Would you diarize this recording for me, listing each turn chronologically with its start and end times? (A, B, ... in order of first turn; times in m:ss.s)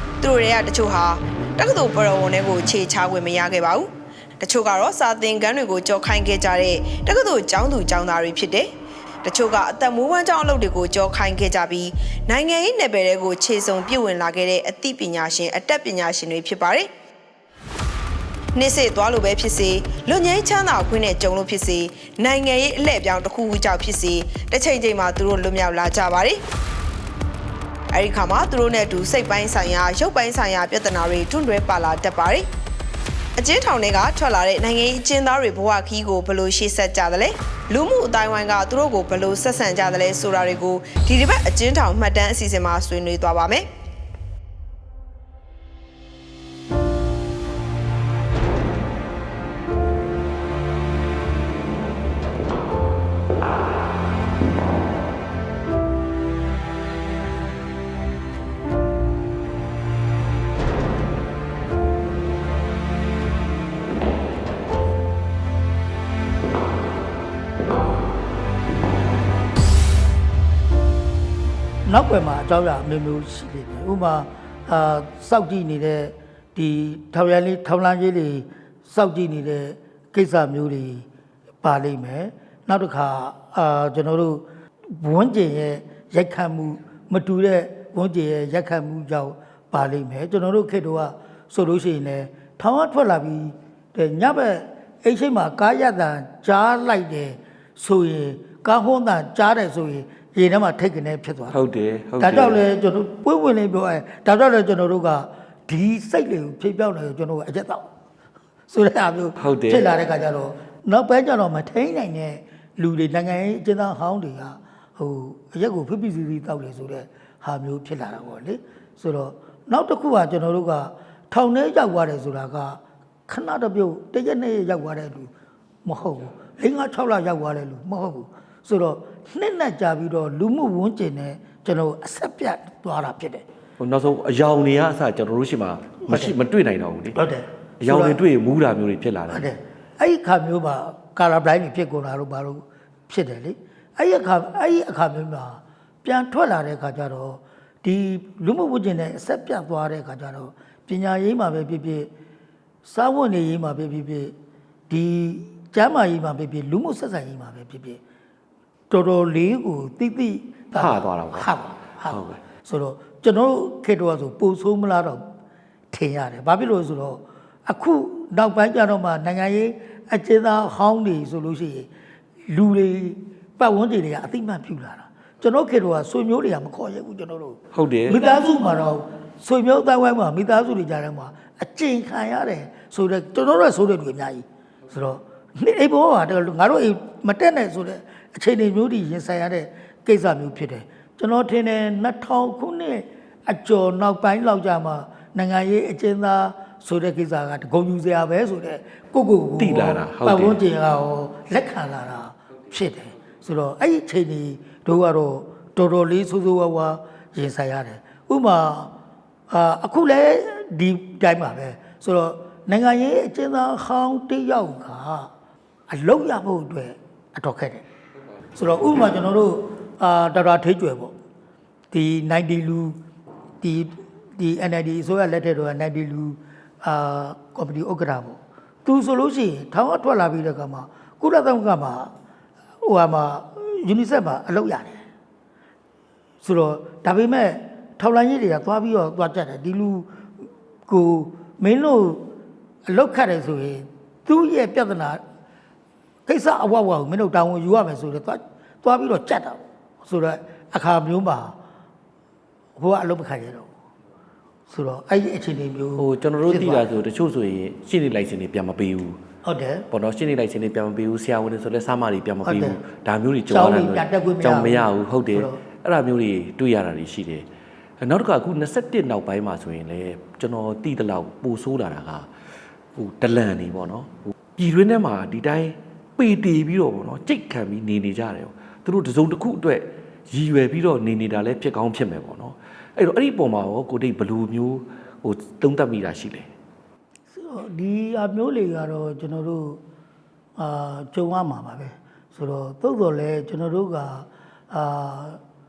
0:00.2-0:03.9 A
0:04.4-0:08.7 A
0:09.2-0:16.9 A
0:18.6-0:26.4 A
0:27.9-0:32.4 A
0:33.4-0:43.6 A
1:11.9-1:21.1 B
1:21.6-1:41.6 B
1:41.5-1:42.6 C
1:42.2-1:47.9 B
1:48.7-2:05.3 B
1:49.4-1:49.9 C
2:05.8-2:13.4 B
2:13.8-2:17.2 C
2:16.1-2:16.4 B
2:17.1-2:18.2 B
2:17.8-2:19.5 C
2:19.3-2:32.1 B
2:32.8-2:34.3 B
2:34.9-2:38.0 B
2:38.9-2:45.2 B
2:40.8-2:42.4 C
2:45.9-2:51.9 B
2:52.5-3:28.9 B
2:57.7-2:58.2 C
3:19.6-3:20.6 C
3:29.5-3:35.3 B
3:35.9-3:37.8 B
3:38.6-3:41.1 B
3:41.9-3:43.0 B
3:43.6-3:52.1 B
3:52.8-3:55.0 B
3:56.4-4:00.1 B
4:00.9-4:02.3 B
4:02.9-4:05.2 B
4:06.3-4:11.6 B
4:12.8-4:13.7 B
4:14.7-4:16.9 B
4:16.0-4:19.2 C
4:19.4-4:19.9 B
4:19.9-4:27.5 C
4:22.4-4:22.8 B
4:23.5-4:25.6 B
4:28.0-4:32.3 C
4:33.0-4:46.5 C
4:47.3-4:49.8 B
4:50.6-4:55.4 B